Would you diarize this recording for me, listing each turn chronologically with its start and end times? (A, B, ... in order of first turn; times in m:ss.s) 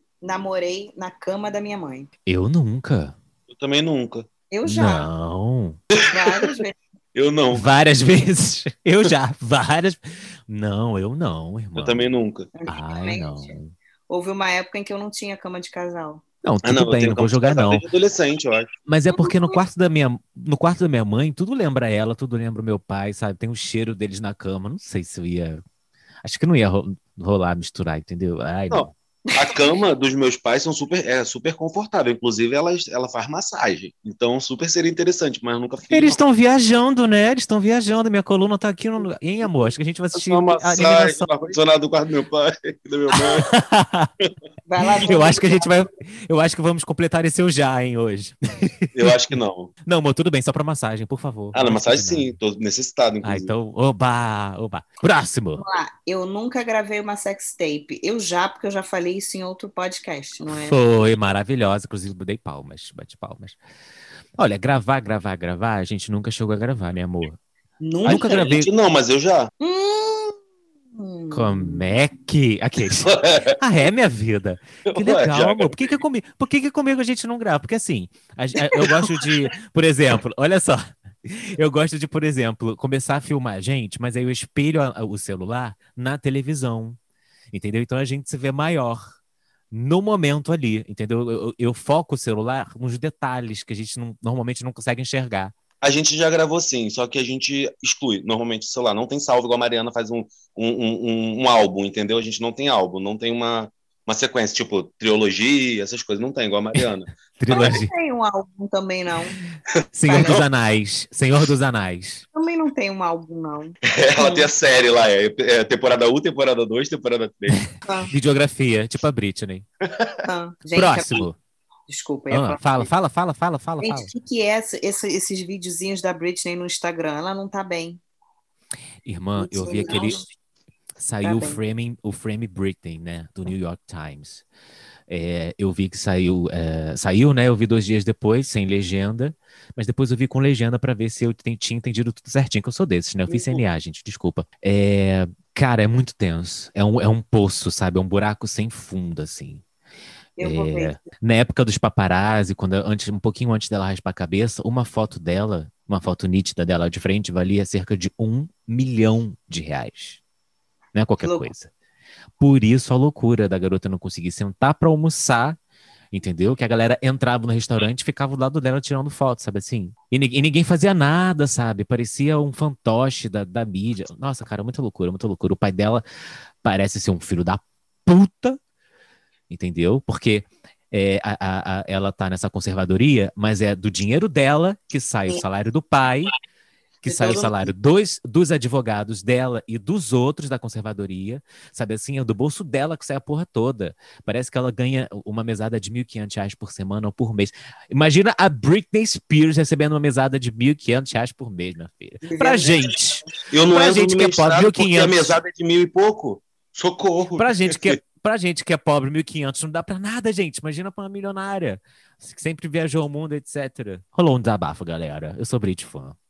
0:00.2-0:02.1 A
0:02.3-0:03.1 B
0:03.5-0:04.3 C
0:04.5-0:05.1 A
0:04.6-0:05.8 B
0:06.0-0:06.8 A
0:07.1-0:07.7 C
0:07.5-0:12.1 B
0:11.8-0:12.5 C
0:12.6-0:13.5 A
0:12.7-0:13.7 B
0:14.1-0:16.2 A
0:16.4-0:17.8 B
0:16.6-0:18.7 C
0:18.9-0:25.6 B
0:19.1-0:19.6 A
0:26.2-0:28.9 B
0:28.7-0:36.2 C
0:35.9-0:41.4 B
0:40.1-0:43.5 C
0:43.3-0:44.1 B
0:44.6-0:45.8 A
0:45.0-0:49.2 B
0:48.9-0:49.7 C
0:49.8-0:52.4 B
0:51.5-0:53.5 C
0:53.2-0:55.6 B
0:55.6-1:00.8 A
1:00.5-1:03.6 B
1:04.4-1:07.4 B
1:07.8-1:08.5 A
1:08.0-1:08.7 B
1:08.0-1:09.5 C
1:09.6-1:10.4 A
1:11.0-1:11.9 A
1:11.3-1:27.0 B
1:13.0-1:13.6 C
1:14.8-1:15.9 C
1:27.5-1:29.0 B
1:29.7-1:35.5 B
1:35.8-1:47.7 C
1:47.4-1:47.9 B
1:47.5-1:49.4 A
1:49.9-1:52.2 B
1:50.0-1:50.4 A
1:52.3-1:54.5 A
1:53.8-1:57.6 C
1:57.5-1:59.6 B
1:57.8-1:58.1 A
2:00.2-2:01.3 A
2:00.7-2:01.4 B
2:01.9-2:02.9 A
2:02.3-2:04.1 B
2:03.8-2:08.0 A
2:09.0-2:10.2 B
2:09.4-2:10.3 A
2:11.0-2:14.4 B
2:11.2-2:11.6 A
2:15.1-2:29.6 B
2:23.3-2:23.6 A
2:30.4-2:31.0 A
2:30.4-2:40.2 B
2:40.9-2:41.7 B
2:41.2-2:41.5 A
2:42.4-2:45.6 B
2:46.1-2:56.0 B
2:56.6-2:58.6 B
2:59.5-3:06.3 B
3:07.0-3:25.4 B
3:07.0-3:07.7 A
3:22.2-3:23.4 A
3:23.5-3:28.0 C
3:27.4-3:36.2 B